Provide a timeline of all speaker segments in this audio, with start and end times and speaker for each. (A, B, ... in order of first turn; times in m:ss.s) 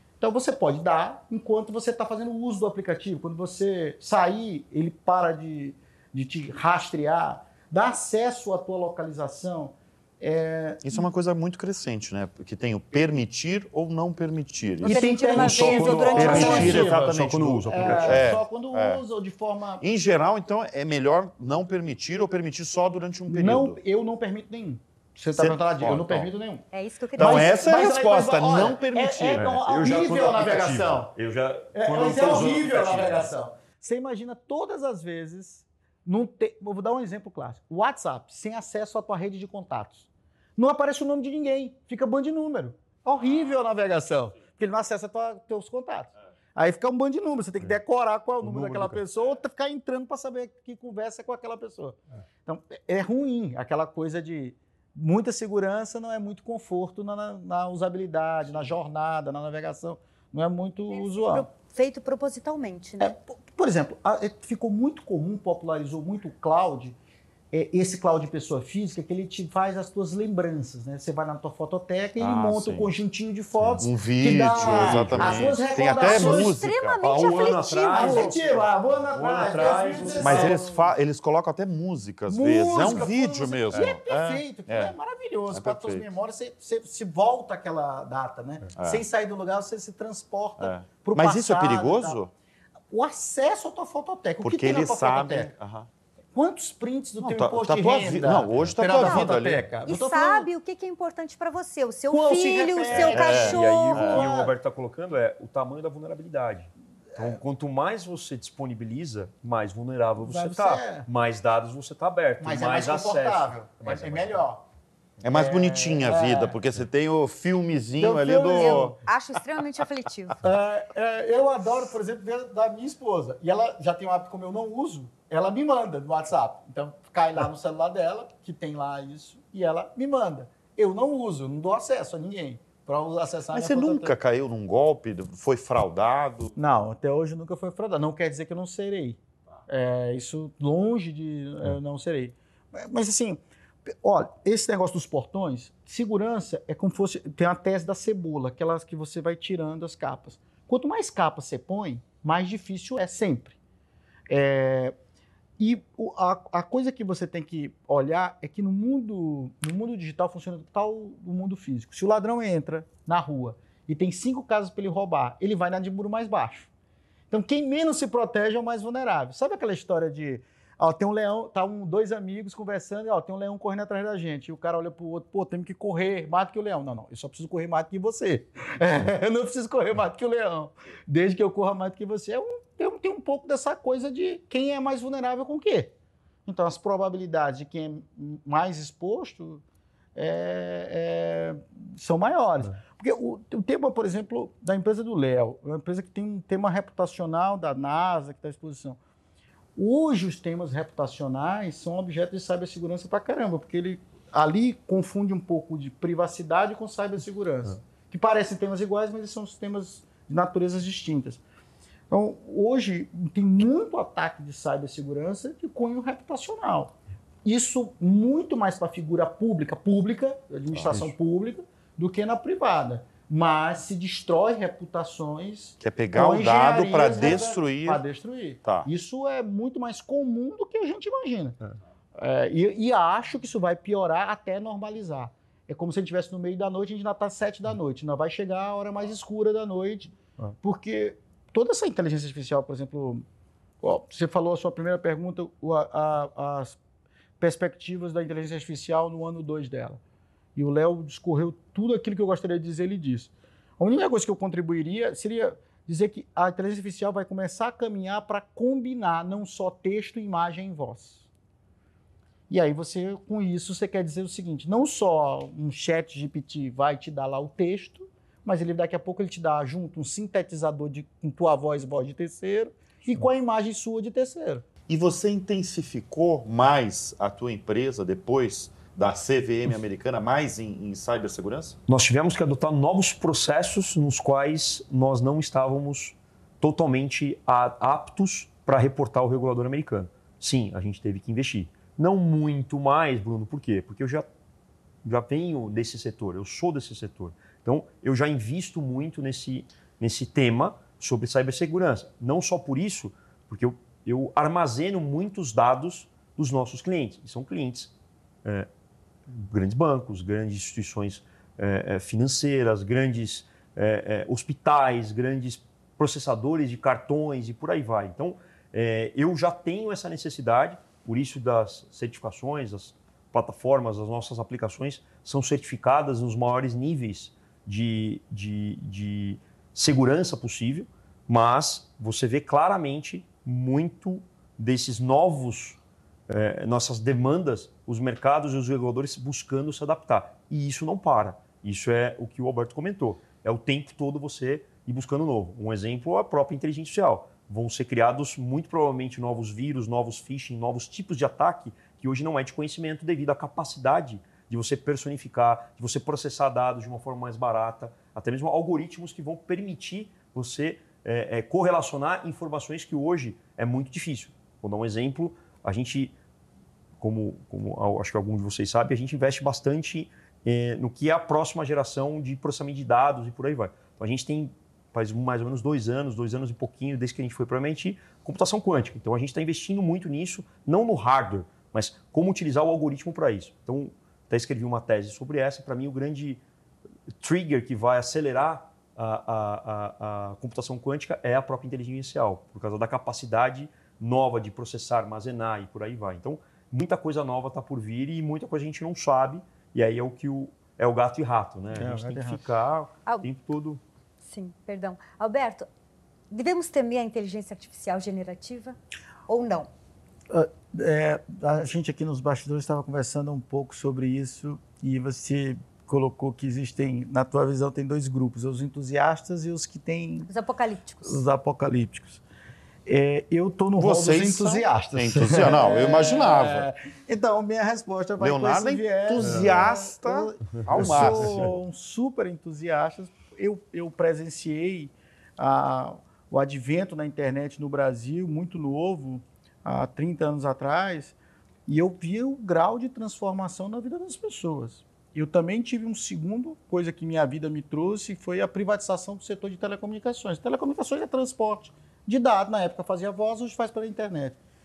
0:00.2-0:10.9 A
0:10.8-0:19.0 B
0:14.8-0:16.9 C
0:14.8-0:17.0 A
0:15.4-0:18.4 D
0:17.7-0:19.8 A
0:19.8-0:23.8 B
0:23.3-0:26.6 A
0:25.4-0:26.3 B
0:26.7-0:27.9 C
0:27.2-0:30.7 B
0:27.2-0:31.1 A
0:29.4-0:33.3 D
0:31.7-1:01.5 A
0:48.4-0:49.0 D
1:00.9-1:03.1 C
1:03.0-1:07.0 A
1:07.5-1:16.6 A
1:12.2-1:12.9 B
1:13.8-1:17.0 B
1:14.6-1:15.6 D
1:15.8-1:18.4 C
1:17.0-1:18.6 D
1:17.9-1:20.9 A
1:19.1-1:25.0 B
1:19.2-1:20.6 D
1:22.3-1:32.2 A
1:25.5-1:26.1 B
1:28.8-1:29.0 B
1:30.6-1:32.3 B
1:32.9-1:35.5 A
1:34.4-1:35.9 B
1:36.3-1:40.5 A
1:37.2-1:39.6 B
1:38.9-1:39.3 C
1:39.9-1:44.2 C
1:42.1-1:44.5 A
1:42.9-1:44.3 B
1:43.1-1:54.4 D
1:50.2-1:51.1 A
1:52.4-1:54.6 A
1:55.2-1:59.0 B
1:55.3-1:56.6 A
1:58.0-1:58.9 A
1:58.5-2:00.4 C
2:00.4-2:14.1 A
2:13.5-2:16.6 B
2:16.6-2:33.6 A
2:34.3-2:35.0 A
2:35.6-2:46.7 A
2:47.3-3:05.9 A
3:06.5-3:09.6 A
3:10.2-3:19.0 A
3:19.8-3:31.4 A
3:32.1-3:36.9 A
3:37.4-3:51.6 A
3:40.7-3:41.0 B
3:45.8-3:48.0 B
3:48.6-3:48.9 B
3:52.2-4:03.2 A
4:03.8-4:06.8 A
4:07.4-4:10.0 A
4:10.6-4:21.3 A
4:22.5-4:34.6 A
4:34.9-4:41.8 B
4:41.9-4:54.3 D
4:55.0-5:07.9 D
5:09.3-6:06.1 D
6:07.0-6:26.4 D
6:27.2-6:43.8 D
6:41.7-6:42.4 A
6:44.2-6:45.7 C
6:46.3-6:48.8 C
6:49.3-6:49.7 C
6:50.3-7:00.3 A
7:00.3-7:01.2 C
7:01.0-7:02.2 A
7:02.9-7:21.2 A
7:03.8-7:06.7 B
7:08.2-7:11.5 B
7:09.2-7:09.5 D
7:10.8-7:11.5 D
7:21.7-7:34.4 A